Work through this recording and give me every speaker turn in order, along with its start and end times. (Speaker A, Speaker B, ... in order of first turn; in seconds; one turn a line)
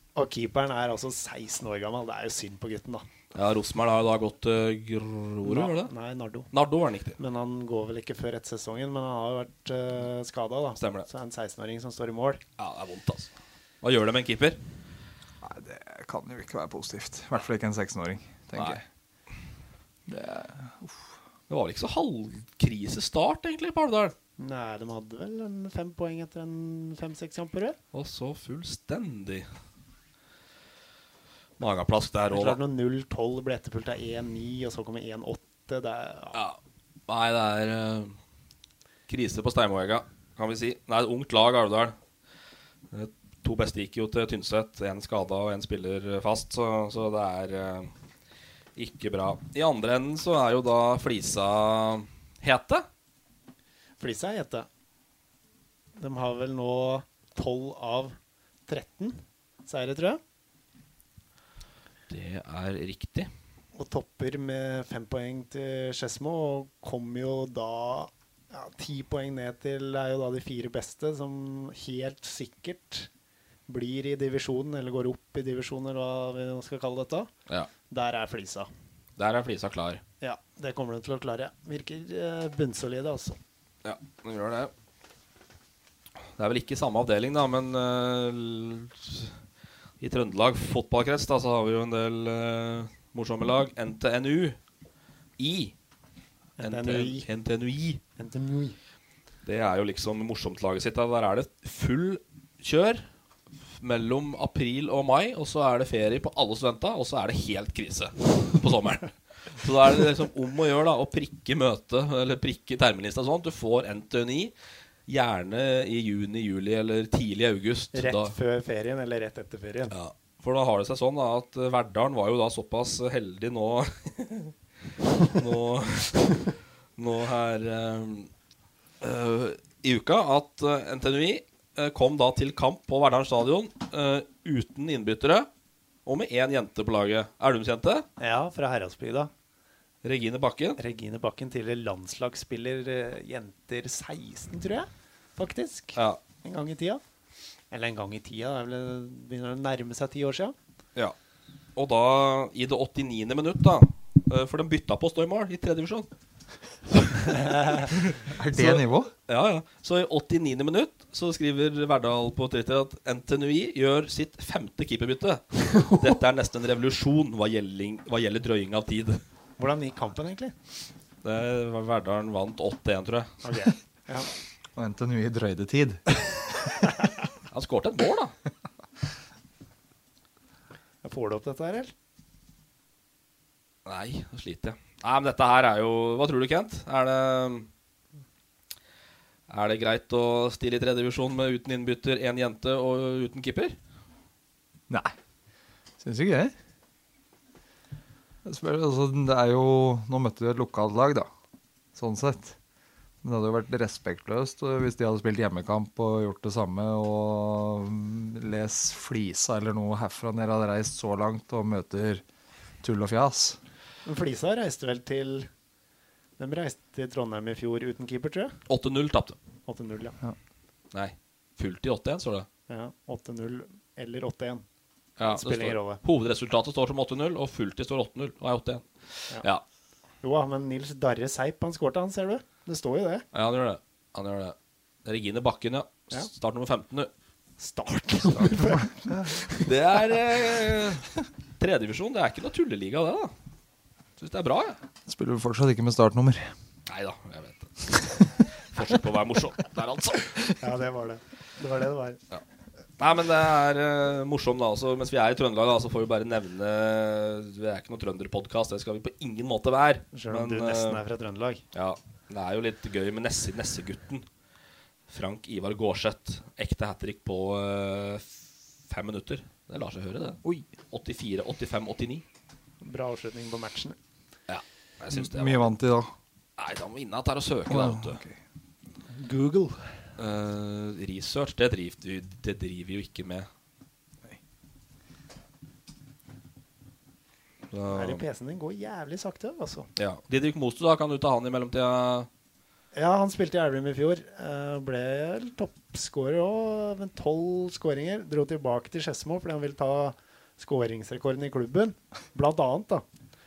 Speaker A: 0.1-3.0
Speaker B: 3.3-5.9
Speaker A: 5.4-6.5
Speaker B: 6.5-7.2
Speaker A: 7.2-12.4
Speaker B: 10.8-11.1
Speaker B: 12.6-14.6
Speaker C: 15.4-18.8
Speaker B: 18.5-18.8
Speaker C: 20.1-21.1
Speaker B: 21.5-24.1
Speaker A: 24.4-27.8
Speaker B: 27.9-29.5
Speaker B: 31.6-32.6
Speaker A: 32.3-36.4
Speaker B: 37.1-38.2
Speaker B: 39.1-42.0
Speaker B: 42.9-47.9
Speaker B: 48.8-52.9
Speaker A: 54.0-54.7
Speaker A: 56.0-58.1
Speaker A: 58.7-60.2
Speaker B: 62.1-63.3
Speaker A: 63.7-73.1
Speaker A: 73.7-77.3
Speaker A: 77.9-78.7
Speaker B: 79.2-80.0
Speaker A: 80.2-83.4
Speaker B: 83.8-84.7
Speaker B: 86.4-89.3
Speaker B: 90.0-94.6
Speaker B: 95.4-95.7
Speaker A: 96.6-97.2
Speaker B: 96.6-98.0
Speaker A: 98.2-98.8
Speaker B: 99.4-103.0
Speaker B: 103.8-114.5
Speaker B: 115.1-118.3
Speaker A: 117.9-119.9
Speaker B: 119.9-124.5
Speaker B: 125.2-128.3
Speaker B: 129.0-135.5
Speaker B: 136.1-138.1
Speaker A: 138.2-139.3
Speaker B: 140.0-140.8
Speaker A: 140.8-147.0
Speaker A: 147.7-150.5
Speaker B: 151.8-156.1
Speaker B: 156.9-157.9
Speaker A: 157.3-157.9
Speaker C: 158.2-159.1
Speaker B: 158.6-169.2
Speaker A: 169.6-170.5
Speaker B: 171.2-173.4
Speaker A: 173.4-174.3
Speaker C: 174.8-176.0
Speaker B: 177.5-178.3
Speaker A: 181.0-181.9
Speaker B: 183.8-187.7
Speaker B: 189.5-193.8
Speaker C: 194.9-195.1
Speaker C: 196.0-196.5
Speaker C: 198.4-201.3
Speaker C: 201.9-202.6
Speaker C: 203.2-212.2
Speaker C: 212.8-213.6
Speaker A: 214.0-215.5
Speaker A: 216.4-218.6
Speaker B: 218.7-219.4
Speaker A: 219.7-220.1
Speaker B: 220.9-222.5
Speaker A: 222.7-224.6
Speaker B: 225.2-229.6
Speaker A: 225.2-226.0
Speaker A: 230.2-233.2
Speaker B: 233.3-237.1
Speaker A: 237.6-239.7
Speaker C: 238.3-239.3
Speaker B: 239.6-243.3
Speaker B: 244.2-244.8
Speaker C: 245.1-246.5
Speaker B: 246.9-250.5
Speaker A: 250.6-252.2
Speaker B: 253.0-261.0
Speaker A: 260.1-261.6
Speaker B: 261.7-264.2
Speaker B: 265.1-272.2
Speaker C: 270.4-270.7
Speaker A: 272.8-274.0
Speaker B: 274.5-275.7
Speaker C: 275.1-276.1
Speaker B: 276.6-278.2
Speaker C: 277.6-278.4
Speaker A: 279.1-279.9
Speaker B: 280.2-283.5
Speaker B: 287.7-288.2
Speaker A: 287.9-289.9
Speaker B: 289.9-292.3
Speaker A: 292.9-303.0